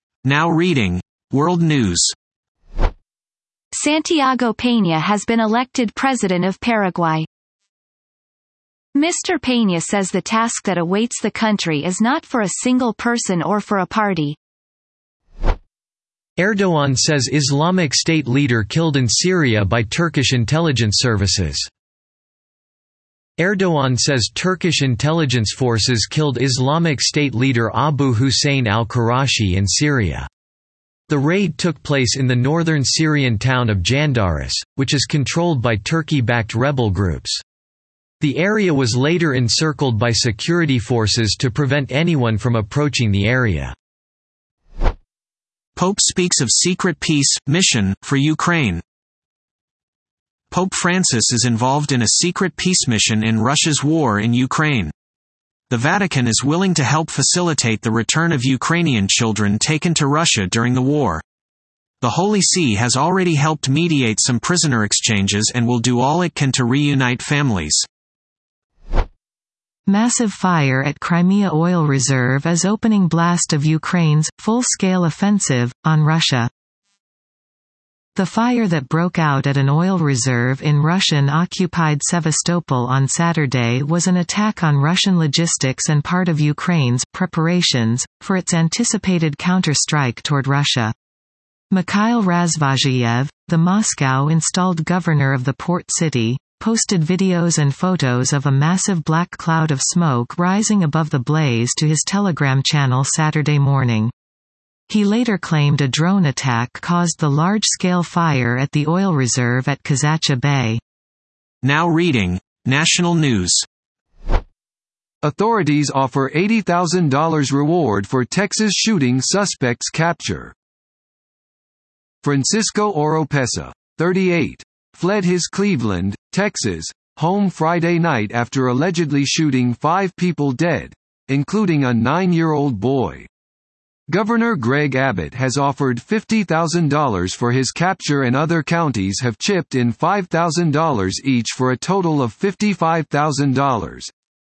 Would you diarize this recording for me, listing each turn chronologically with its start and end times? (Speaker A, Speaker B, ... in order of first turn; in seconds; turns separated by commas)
Speaker A: 0.2-2.1, Speaker B: 3.7-7.3, Speaker B: 8.9-14.4, Speaker C: 16.4-21.7, Speaker C: 23.4-30.3, Speaker C: 31.1-37.4, Speaker C: 38.2-43.7, Speaker A: 45.8-48.8, Speaker A: 50.5-54.9, Speaker A: 55.7-61.2, Speaker A: 62.0-67.8, Speaker D: 69.9-76.5, Speaker D: 78.2-90.9, Speaker D: 91.7-104.1, Speaker D: 104.9-110.8, Speaker A: 111.6-113.6, Speaker E: 115.2-120.5, Speaker E: 122.2-133.3, Speaker E: 134.1-144.1